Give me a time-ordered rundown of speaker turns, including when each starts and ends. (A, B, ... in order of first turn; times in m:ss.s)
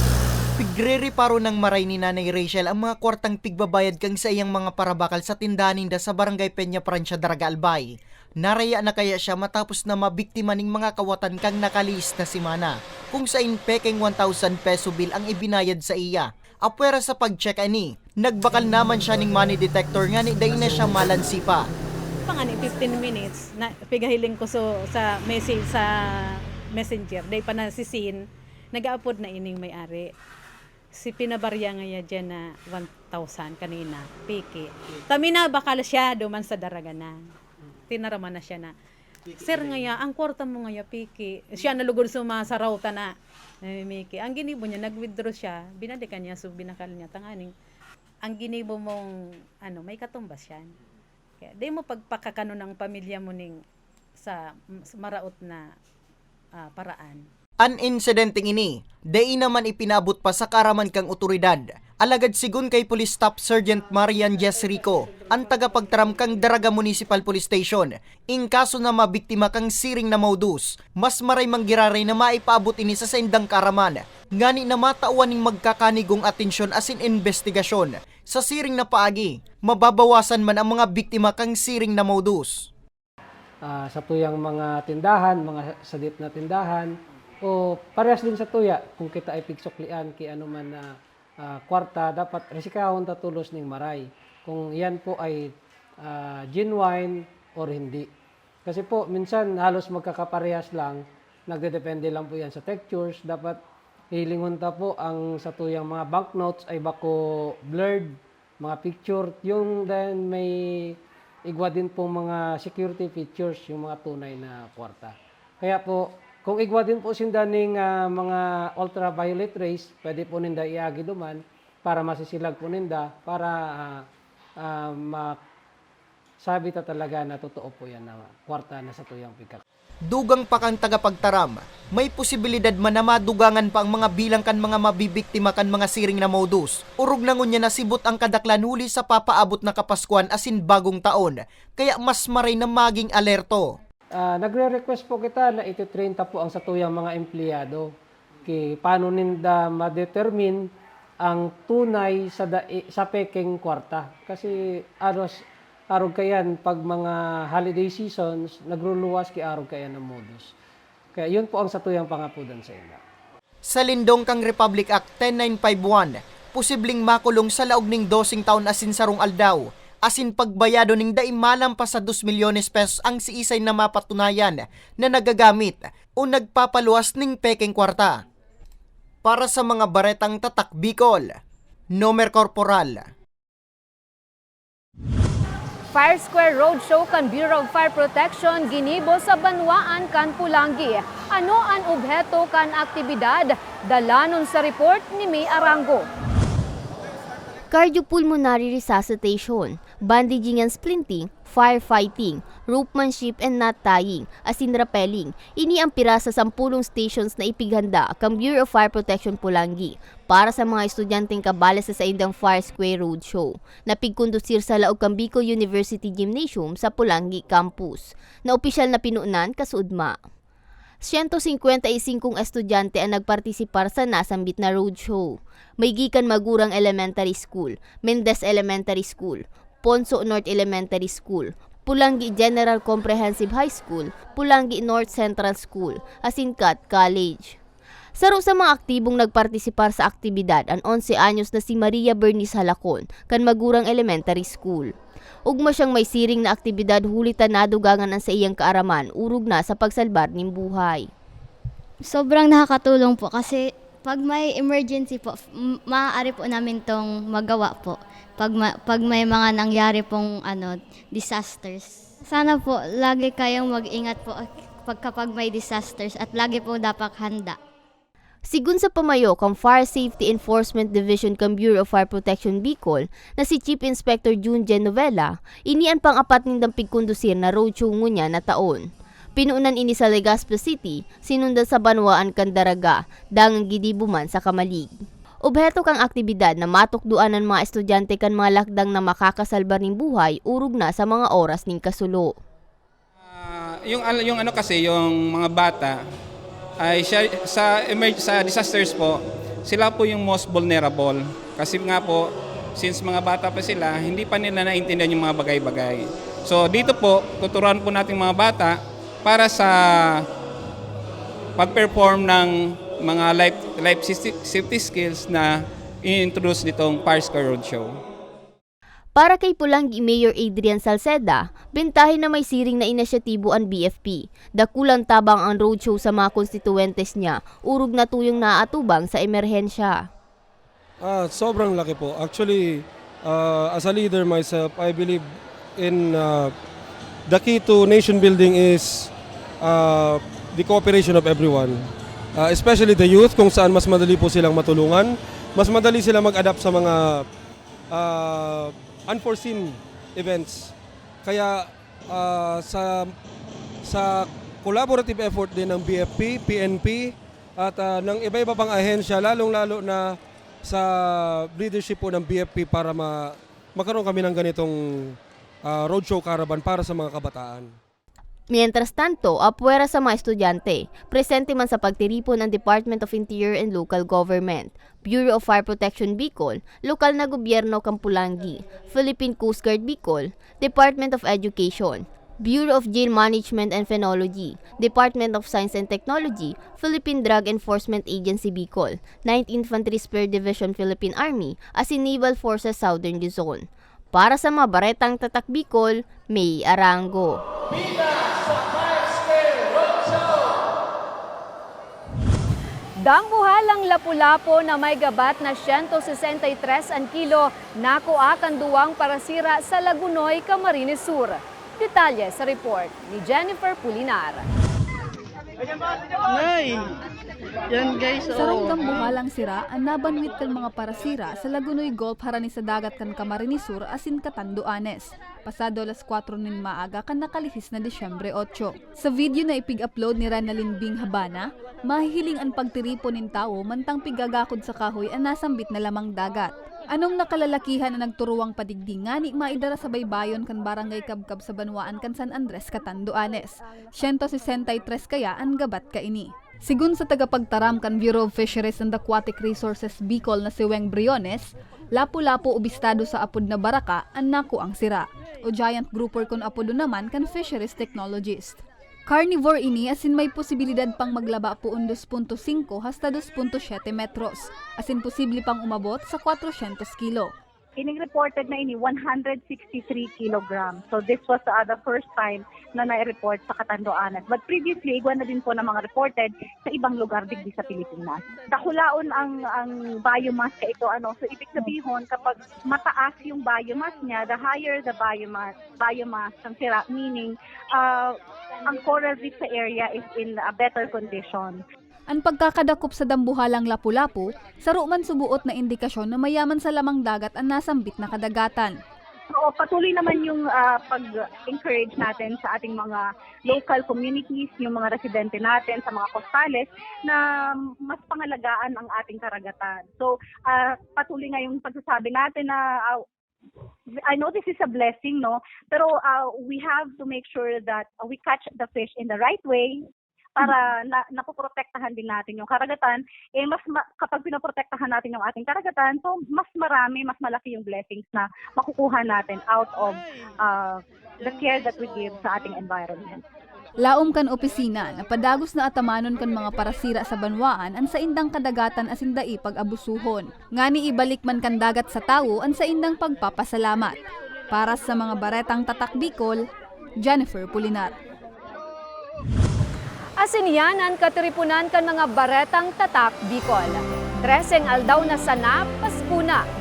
0:00.6-0:21.7 A
0:22.2-0:30.1 B
0:31.0-0:37.2 B
0:37.9-0:38.7 B
0:39.3-0:47.5 B
0:48.2-0:50.7 B
0:51.4-0:53.6 B
0:54.2-0:55.7 B
0:56.6-0:57.2 B
0:57.6-1:22.7 A
1:23.6-1:38.1 C
1:38.6-1:43.6 C
1:44.1-2:04.1 C
2:04.6-2:05.4 C
2:06.4-2:09.6 C
2:10.1-2:23.7 A
2:24.2-2:27.9 C
2:28.4-2:30.7 C
2:31.2-2:40.5 C
2:41.1-2:43.0 C
2:43.7-2:58.2 A
2:59.2-3:01.4 A
3:02.0-3:03.1 A
3:05.9-3:16.1 D
3:17.7-3:40.2 E
3:41.0-3:57.6 E
3:58.2-4:04.9 E
4:05.5-4:11.1 E
4:12.0-4:27.6 F
4:28.5-4:52.4 E
4:53.3-4:56.0 G
4:56.8-5:10.3 G
5:11.6-5:18.0 G
5:19.2-5:30.1 E
5:31.0-5:35.2 H
5:35.8-5:36.5 H
5:37.3-5:47.2 H
5:47.9-5:50.7 H
5:51.2-5:53.1 H
5:53.8-6:00.1 H
6:00.7-6:05.2 H
6:05.7-6:07.7 H
6:08.5-6:37.4 E
6:43.0-6:54.5 D
6:58.3-7:47.3 I
7:47.8-8:11.6 J
8:12.1-8:18.8 I
8:19.4-8:33.0 J
8:34.0-8:39.8 J
8:40.4-8:53.2 J
8:53.8-9:04.0 I
9:04.5-9:06.4 I
9:07.0-9:08.0 I
9:10.2-9:16.5 D